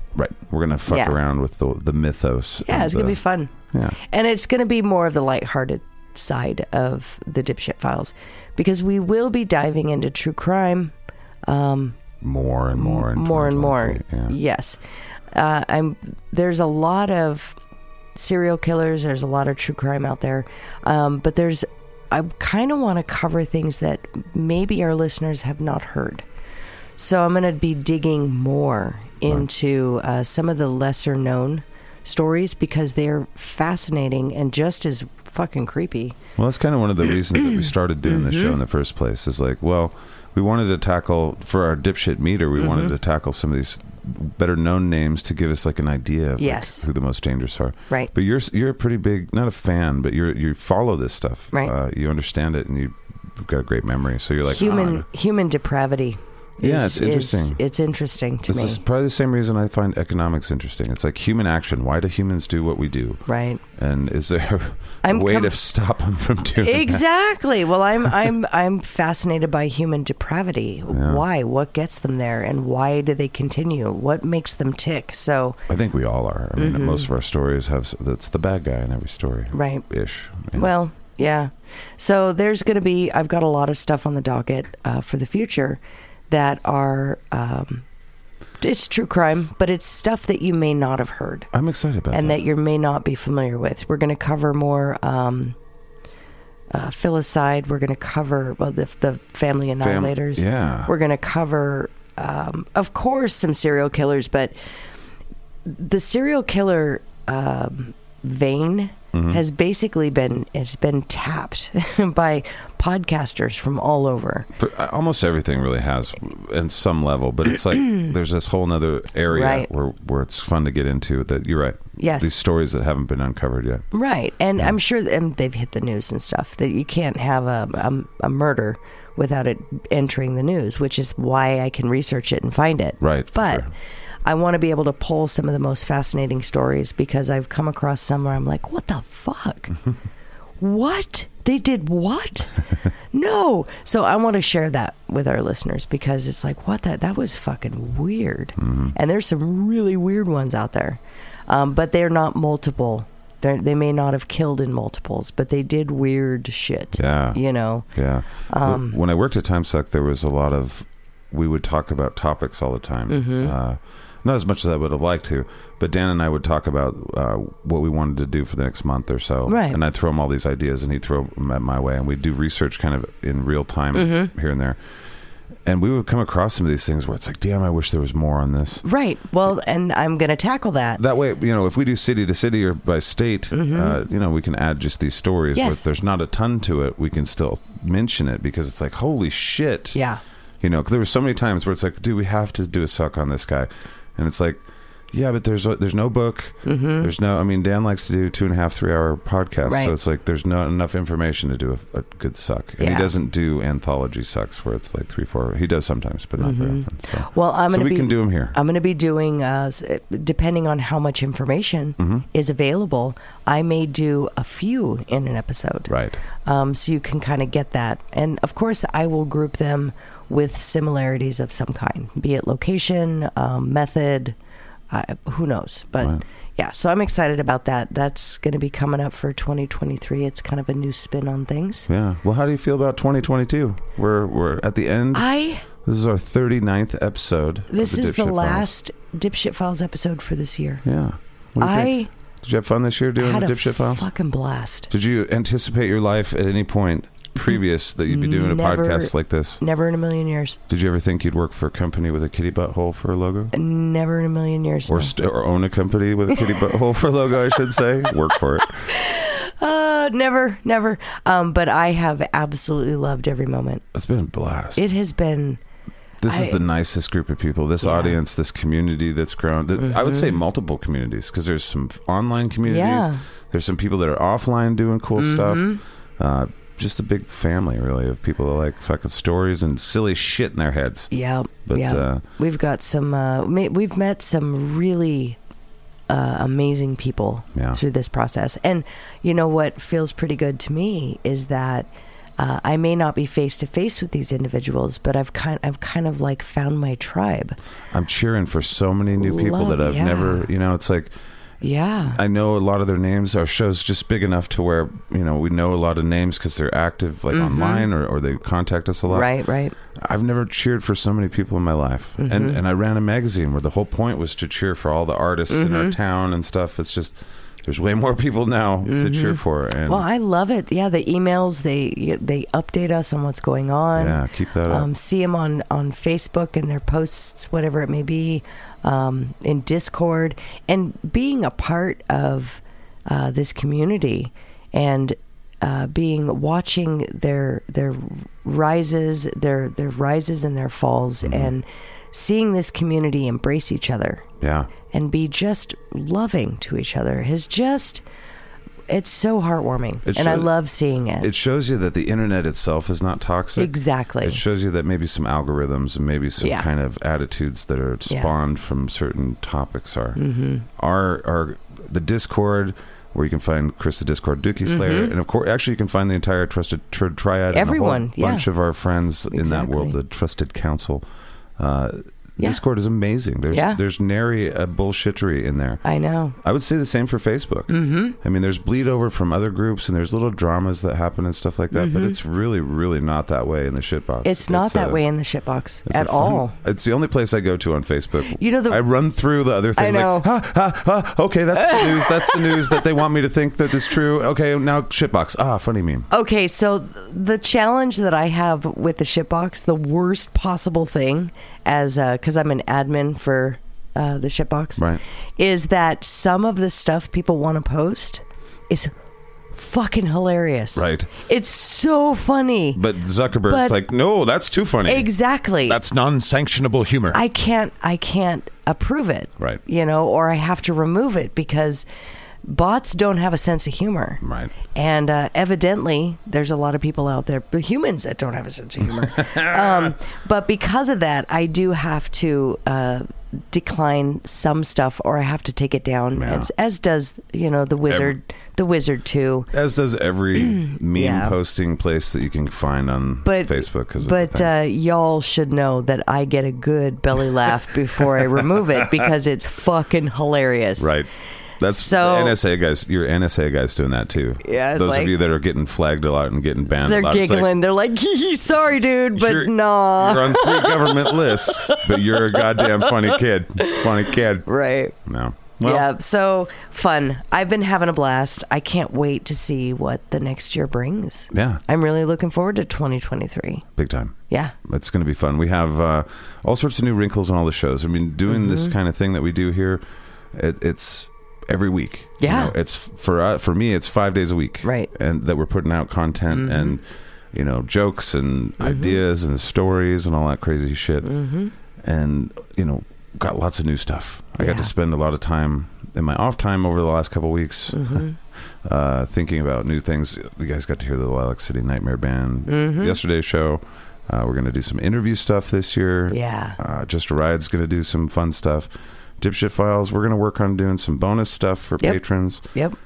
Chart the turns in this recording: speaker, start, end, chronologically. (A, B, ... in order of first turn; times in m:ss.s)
0:00.1-0:03.2 A
0:00.9-0:01.2 B
0:02.6-0:10.9 B
0:11.4-0:12.0 B
0:12.2-0:14.3 A
0:12.7-0:14.8 B
0:15.3-0:17.6 B
0:18.2-0:26.2 B
0:27.0-0:36.2 B
0:36.4-0:55.0 A
0:38.1-0:38.6 B
0:42.6-0:42.9 B
0:46.4-0:46.9 B
0:54.5-0:58.8 B
0:56.6-0:57.6 A
0:58.5-1:03.2 A
1:03.3-1:03.6 B
1:03.8-1:07.0 A
1:05.0-1:05.6 B
1:06.6-1:15.6 B
1:10.9-1:11.2 A
1:15.7-1:20.7 A
1:16.6-1:17.1 B
1:19.5-1:19.8 B
1:20.5-1:27.8 B
1:28.6-1:31.5 B
1:31.5-1:32.4 A
1:32.1-1:35.6 B
1:36.7-1:44.6 B
1:39.8-1:40.9 A
1:45.6-1:54.5 B
1:49.1-1:49.4 A
1:54.6-2:03.8 A
1:59.3-1:59.7 B
2:02.0-2:02.3 B
2:03.9-2:13.7 B
2:13.0-2:13.7 A
2:14.2-2:19.7 B
2:20.6-2:37.9 B
2:28.6-2:28.9 A
2:37.0-2:37.4 A
2:37.9-2:54.8 A
2:38.5-2:39.0 B
2:43.1-2:43.5 B
2:49.5-2:49.8 B
2:53.9-2:54.3 B
2:55.6-2:58.8 A
2:58.8-3:01.0 B
3:01.0-3:10.0 A
3:03.5-3:04.0 B
3:05.6-3:05.9 B
3:09.9-3:10.2 B
3:10.6-3:14.6 A
3:15.1-3:28.6 A
3:16.6-3:17.1 B
3:19.6-3:19.9 B
3:22.8-3:23.1 B
3:26.4-3:44.3 B
3:32.0-3:32.2 A
3:35.9-3:36.2 A
3:44.9-3:51.9 B
3:51.9-3:58.7 A
3:55.1-3:55.6 B
3:57.7-4:00.8 B
4:00.8-4:04.1 A
4:01.6-4:02.1 B
4:03.2-4:04.9 B
4:04.9-4:09.6 A
4:08.1-4:10.6 B
4:10.7-4:13.5 A
4:13.5-4:15.1 B
4:14.9-4:18.9 A
4:18.9-4:23.8 B
4:23.9-4:24.8 A
4:24.8-4:25.6 B
4:26.2-4:41.1 A
4:26.3-4:26.6 B
4:27.8-4:28.2 B
4:29.8-4:30.4 B
4:32.6-4:33.2 B
4:35.2-4:35.8 B
4:41.1-4:45.4 B
4:41.6-4:42.2 A
4:46.1-4:57.6 B
4:47.6-4:47.8 A
4:57.9-5:01.1 A
4:59.2-5:00.5 B
5:01.6-5:02.2 B
5:02.1-5:09.3 A
5:07.3-5:07.9 B
5:09.1-5:09.8 B
5:10.0-5:20.0 A
5:12.2-5:12.6 B
5:15.5-5:15.9 B
5:18.9-5:44.2 B
5:23.9-5:24.9 A
5:41.2-5:41.5 A
5:44.4-5:44.7 A
5:44.9-5:48.0 B
5:48.9-5:51.3 B
5:50.0-5:50.5 A
5:51.2-6:00.2 A
5:53.6-5:54.4 B
5:56.4-5:56.7 B
6:00.2-6:00.6 B
6:00.8-6:11.0 A
6:04.6-6:05.1 B
6:07.5-6:08.5 B
6:09.3-6:09.9 B
6:11.6-6:15.8 A
6:13.5-6:13.8 B
6:15.8-6:16.4 B
6:16.4-6:25.0 A
6:17.7-6:18.2 B
6:21.7-6:22.2 B
6:24.2-6:26.6 B
6:25.9-6:36.1 A
6:28.3-6:28.8 B
6:29.8-6:30.3 B
6:31.6-6:32.7 B
6:36.1-6:44.8 B
6:45.4-6:48.9 B
6:49.5-6:52.8 B
6:50.7-6:51.1 A
6:52.7-6:55.1 A
6:53.4-6:53.8 B
6:54.9-6:55.8 B
6:55.6-6:57.2 A
6:57.1-7:01.9 B
7:02.4-7:04.2 B
7:04.2-7:04.5 A
7:04.7-7:19.5 B
7:09.0-7:09.9 A
7:16.1-7:16.5 A
7:17.9-7:18.1 A
7:19.5-7:24.5 A
7:20.4-7:21.4 B
7:23.2-7:30.9 B
7:30.8-7:31.1 A
7:31.6-7:37.5 A
7:31.7-7:32.4 B
7:34.4-7:35.1 B
7:36.8-7:42.9 B
7:39.1-7:44.5 A
7:44.4-7:44.9 B
7:45.0-7:45.9 A
7:45.6-7:53.6 B
7:51.3-7:51.6 A
7:53.8-7:59.8 A
7:58.3-7:58.7 B
8:00.3-8:11.1 A
8:02.2-8:02.5 B
8:04.6-8:04.9 B
8:06.3-8:06.8 B
8:08.6-8:09.0 B
8:11.0-8:11.5 B
8:11.8-8:18.0 A
8:14.4-8:14.7 B
8:17.7-8:18.2 B
8:18.6-8:32.4 A
8:22.5-8:23.0 B
8:26.1-8:26.6 B